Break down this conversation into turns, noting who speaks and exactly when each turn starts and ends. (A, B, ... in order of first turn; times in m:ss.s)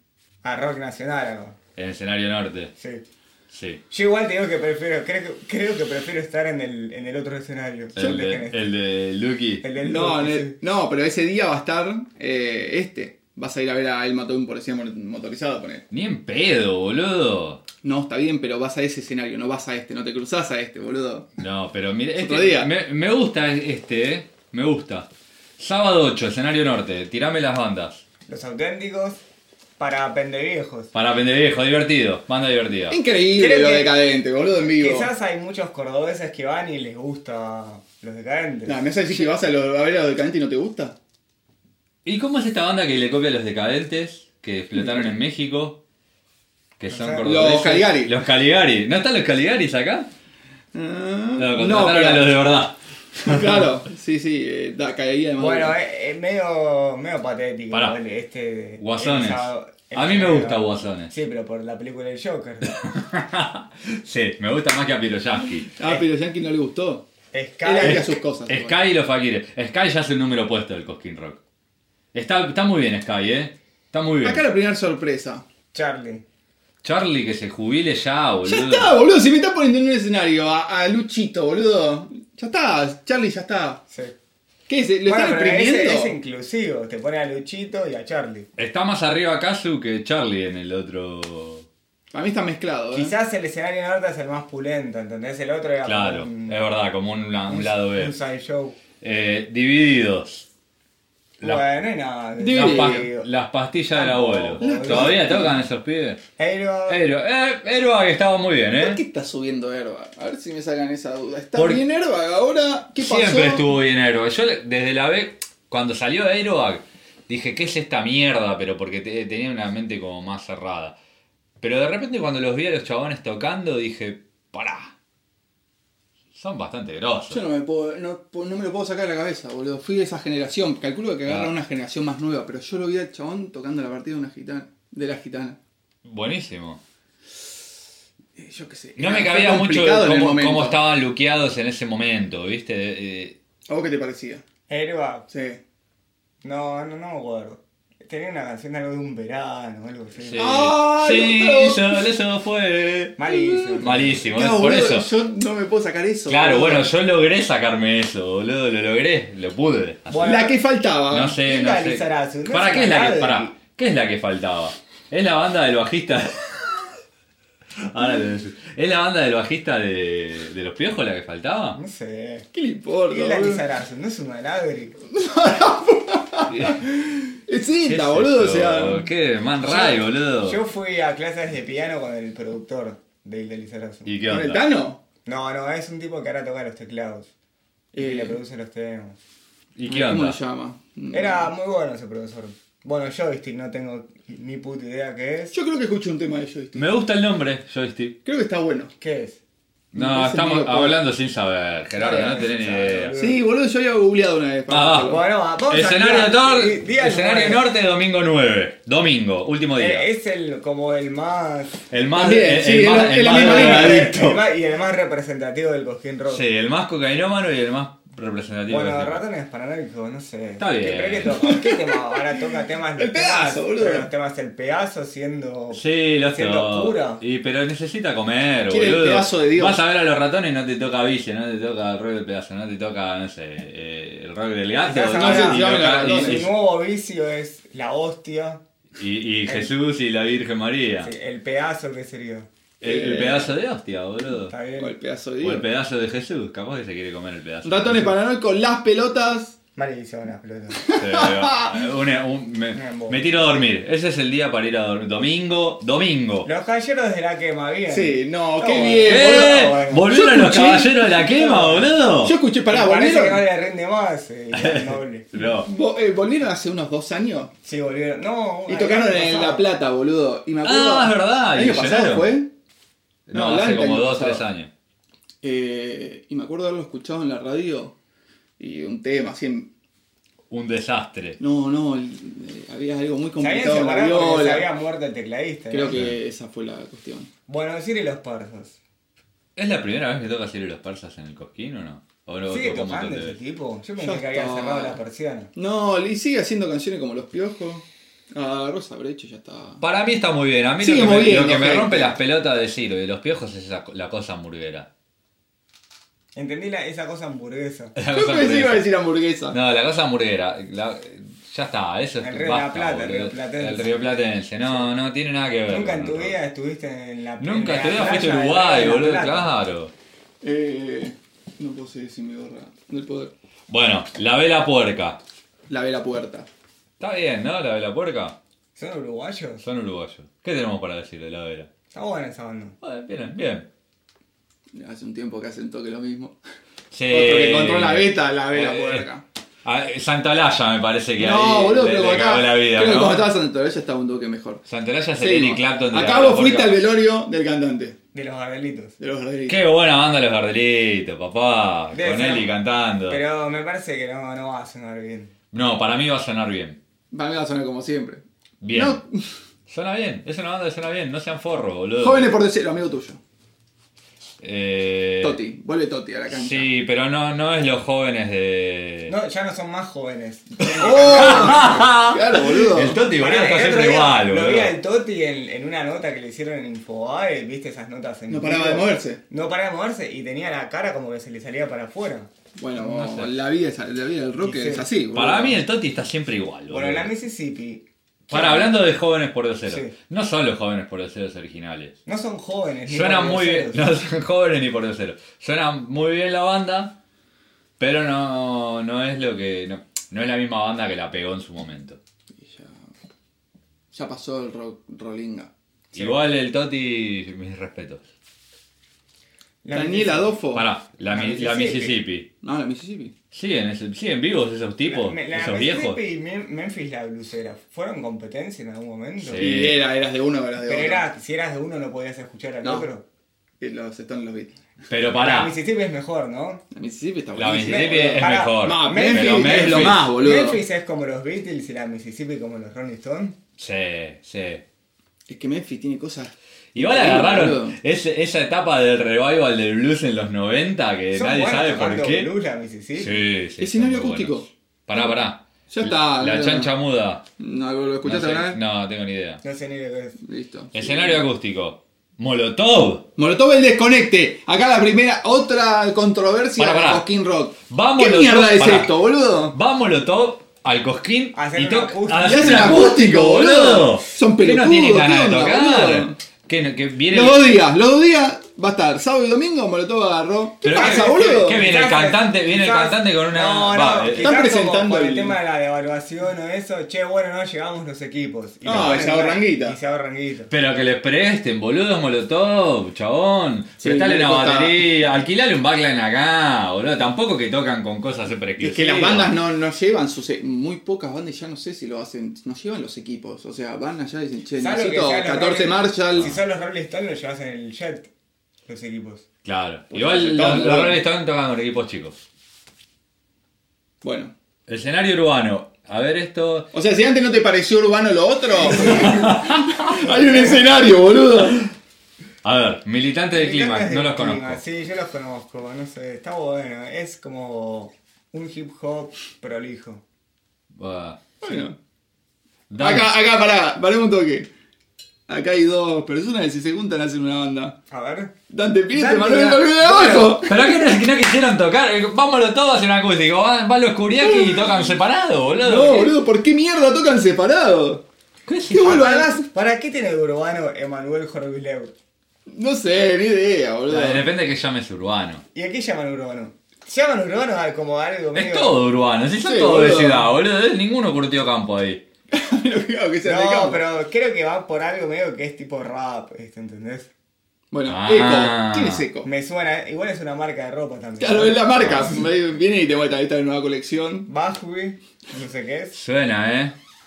0:00.4-0:01.6 A
0:01.8-0:02.7 B
0:02.8-0:03.0 A
0:03.5-0:03.8 B
0:03.9-0:08.6 A
0:08.0-0:09.6 B
0:09.6-0:10.6 A
0:09.8-0:15.8 C
0:15.9-0:17.6 B
0:17.8-0:21.3 C
0:21.4-0:28.0 B
0:22.2-0:22.7 C
0:28.3-0:29.2 A
0:29.8-0:30.9 A
0:30.9-0:33.0 B
0:32.9-0:35.1 C
0:33.4-0:34.0 A
0:34.8-0:38.8 A
0:38.7-0:41.0 C
0:42.0-0:45.8 B
0:44.8-0:45.1 C
0:46.8-0:50.1 B
0:46.9-0:47.3 A
0:47.2-0:48.2 C
0:50.7-0:52.3 C
0:51.4-0:53.7 B
0:53.2-0:55.8 C
0:55.4-1:02.7 A
0:58.8-1:01.1 B
1:02.6-1:05.8 B
1:05.7-1:07.1 C
1:07.3-1:08.1 A
1:07.6-1:08.8 C
1:07.8-1:11.4 B
1:12.1-1:14.4 B
1:14.2-1:15.4 C
1:15.7-1:16.2 A
1:16.8-1:19.0 B
1:18.4-1:23.8 C
1:24.7-1:26.2 C
1:25.1-1:28.5 A
1:28.6-1:31.7 B
1:32.1-1:33.1 C
1:32.9-1:36.6 A
1:35.8-1:38.1 B
1:37.5-1:38.8 A
1:39.0-1:40.5 B
1:41.4-1:43.3 A
1:42.4-1:43.1 C
1:42.5-1:46.2 B
1:43.9-1:45.5 A
1:44.6-1:45.5 C
1:46.4-1:47.0 A
1:46.9-1:49.0 B
1:48.8-1:53.7 C
1:51.6-1:51.8 B
1:53.0-2:01.0 B
2:01.6-2:04.9 B
2:06.4-2:07.4 B
2:07.3-2:15.6 C
2:11.3-2:11.5 B
2:16.0-2:16.8 B
2:18.4-2:20.8 C
2:19.0-2:23.4 B
2:23.7-2:24.4 C
2:24.7-2:25.3 A
2:25.3-2:25.6 C
2:26.4-2:30.5 A
2:30.2-2:35.1 B
2:30.4-2:32.1 C
2:33.2-2:34.2 A
2:33.4-2:36.9 C
2:36.3-2:40.4 B
2:40.1-2:40.6 A
2:40.2-2:41.4 C
2:41.1-2:46.8 B
2:41.4-2:43.6 A
2:47.8-2:51.8 B
2:51.8-2:52.5 A
2:52.5-2:53.6 C
2:53.1-2:55.0 A
2:55.1-2:59.1 C
2:56.5-2:56.8 B
2:57.9-3:00.6 B
2:59.6-3:04.1 A
3:04.1-3:04.6 B
3:04.3-3:05.0 C
3:05.3-3:07.3 A
3:07.9-3:08.4 C
3:07.9-3:09.2 A
3:09.8-3:10.4 B
3:09.9-3:11.5 C
3:11.1-3:15.5 A
3:15.5-3:16.9 C
3:16.8-3:18.2 B
3:18.2-3:18.9 C
3:19.0-3:19.4 A
3:19.9-3:23.1 B
3:19.9-3:21.0 C
3:22.0-3:23.4 A
3:23.2-3:25.2 C
3:24.7-3:30.1 B
3:25.1-3:27.6 A
3:29.8-3:31.8 A
3:31.9-3:34.4 B
3:32.1-3:34.2 C
3:33.2-3:36.4 A
3:36.3-3:39.2 B
3:38.7-3:47.2 A
3:40.6-3:41.4 B
3:41.4-3:42.4 C
3:43.0-3:44.1 C
3:45.7-3:56.5 B
3:48.7-3:49.8 C
3:54.8-3:58.6 A
3:55.1-3:56.5 C
3:59.0-4:01.1 B
4:01.0-4:02.5 A
4:02.8-4:04.5 B
4:02.8-4:03.5 C
4:04.5-4:04.9 A
4:04.8-4:05.7 C
4:05.4-4:08.2 B
4:07.6-4:09.6 C
4:09.8-4:10.8 A
4:10.8-4:11.9 C
4:11.0-4:16.5 B
4:12.7-4:13.4 A
4:16.4-4:20.1 A
4:17.9-4:21.0 C
4:19.1-4:22.4 B
4:21.1-4:21.9 A
4:22.2-4:23.4 C
4:22.7-4:25.3 A
4:24.5-4:25.7 B
4:25.6-4:27.5 C
4:27.6-4:29.6 A
4:28.7-4:32.5 C
4:30.6-4:32.4 B
4:33.3-4:34.7 B
4:33.3-4:34.4 C
4:35.4-4:38.0 C
4:38.6-4:39.7 C
4:40.5-4:41.4 B
4:41.4-4:44.7 C
4:43.4-4:46.1 A
4:45.7-4:47.3 C
4:47.5-4:48.8 A
4:49.6-4:53.4 B
4:52.5-4:55.5 A
4:54.0-4:55.0 C
4:55.6-4:59.8 C
4:59.8-5:04.9 B
5:00.8-5:02.2 C
5:06.4-5:08.0 A
5:08.0-5:08.9 B
5:08.1-5:09.6 C
5:09.5-5:16.4 B
5:12.2-5:14.1 A
5:15.7-5:19.5 A
5:17.4-5:19.9 B
5:20.4-5:23.3 C
5:23.7-5:25.2 B
5:25.7-5:26.5 C
5:27.0-5:28.4 B
5:28.8-5:29.6 A
5:29.6-5:31.7 B
5:31.9-5:32.8 A
5:32.8-5:33.7 B
5:34.7-5:36.4 C
5:36.9-5:39.1 B
5:37.1-5:39.2 C
5:39.6-5:43.3 B
5:41.2-5:44.6 C
5:44.7-5:46.8 B
5:45.2-5:48.0 C
5:48.1-5:49.0 A
5:49.0-5:49.6 C
5:49.5-5:53.2 B
5:51.9-5:52.5 A
5:53.1-5:55.3 A
5:55.5-5:56.8 B
5:57.1-5:59.2 C
5:58.6-5:59.0 B
5:59.7-6:02.3 B
6:02.0-6:03.2 C
6:04.4-6:05.4 B
6:05.2-6:06.7 C
6:06.3-6:09.1 B
6:09.1-6:11.9 A
6:10.8-6:13.0 C
6:10.8-6:14.8 B
6:13.2-6:22.3 A
6:18.3-6:19.2 C
6:22.6-6:25.6 C
6:22.8-6:23.3 B
6:24.4-6:24.9 A
6:25.1-6:27.1 B
6:26.7-6:28.7 A
6:28.3-6:32.0 B
6:29.7-6:29.9 A
6:32.1-6:33.9 A
6:32.9-6:37.0 B
6:37.8-6:42.0 B
6:42.4-6:42.9 C
6:43.9-6:45.5 C
6:45.9-6:48.0 B
6:49.6-6:50.4 A
6:49.7-6:50.7 C
6:50.5-6:52.3 B
6:51.1-6:52.0 A
6:52.4-6:53.1 C
6:53.3-6:56.0 B
6:54.9-6:59.5 A
6:59.2-6:59.8 B
6:59.4-7:01.0 C
7:00.6-7:03.0 A
7:02.6-7:02.9 C
7:03.6-7:04.5 C
7:04.9-7:05.6 B
7:05.2-7:06.6 A
7:06.7-7:10.6 C
7:07.4-7:10.1 B
7:07.7-7:13.4 A
7:13.6-7:14.6 B
7:15.3-7:17.8 C
7:16.8-7:22.3 B
7:21.1-7:23.3 A
7:23.0-7:27.2 B
7:23.6-7:24.5 C
7:25.7-7:26.7 C
7:27.4-7:28.6 C
7:28.0-7:29.4 B
7:29.4-7:30.2 A
7:30.2-7:31.2 C
7:30.7-7:33.1 B
7:33.2-7:39.6 C
7:36.6-7:37.0 B
7:37.7-7:39.0 B
7:39.5-7:47.5 B
7:41.3-7:42.9 A
7:42.2-7:46.2 C
7:47.1-7:51.7 C
7:50.6-7:54.3 B
7:50.7-8:00.5 A
7:54.2-7:55.4 C
7:58.6-7:59.8 C
7:58.7-7:59.0 B
8:00.5-8:09.4 B
8:03.8-8:04.9 C
8:08.6-8:16.3 C
8:14.6-8:18.1 A
8:18.7-8:19.3 A
8:19.4-8:22.2 B
8:19.9-8:21.0 C
8:24.0-8:24.3 C
8:24.7-8:26.7 B
8:26.7-8:31.7 C
8:28.8-8:29.3 A
8:28.8-8:29.9 B
8:30.0-8:30.6 A
8:32.4-8:34.6 B
8:33.3-8:40.0 A
8:40.8-8:41.2 B
8:41.4-8:41.8 C
8:42.7-8:43.1 B
8:42.8-8:44.5 C
8:45.3-8:47.8 C
8:47.9-8:48.3 A
8:48.5-8:50.8 C
8:48.9-8:50.5 A
8:50.4-8:56.2 B
8:54.2-8:54.8 C
8:55.6-8:58.0 C
8:58.5-8:59.2 B
8:58.7-8:59.4 C
8:58.8-9:01.9 A
9:02.5-9:04.3 C
9:03.9-9:05.4 B
9:05.5-9:08.8 A
9:08.4-9:12.0 B
9:09.4-9:10.3 C
9:12.3-9:13.8 C
9:13.2-9:17.1 A
9:17.7-9:19.3 C
9:17.9-9:19.0 B
9:19.2-9:21.9 A
9:21.2-9:24.3 C
9:21.8-9:22.1 B
9:24.3-9:26.0 A
9:25.9-9:26.8 B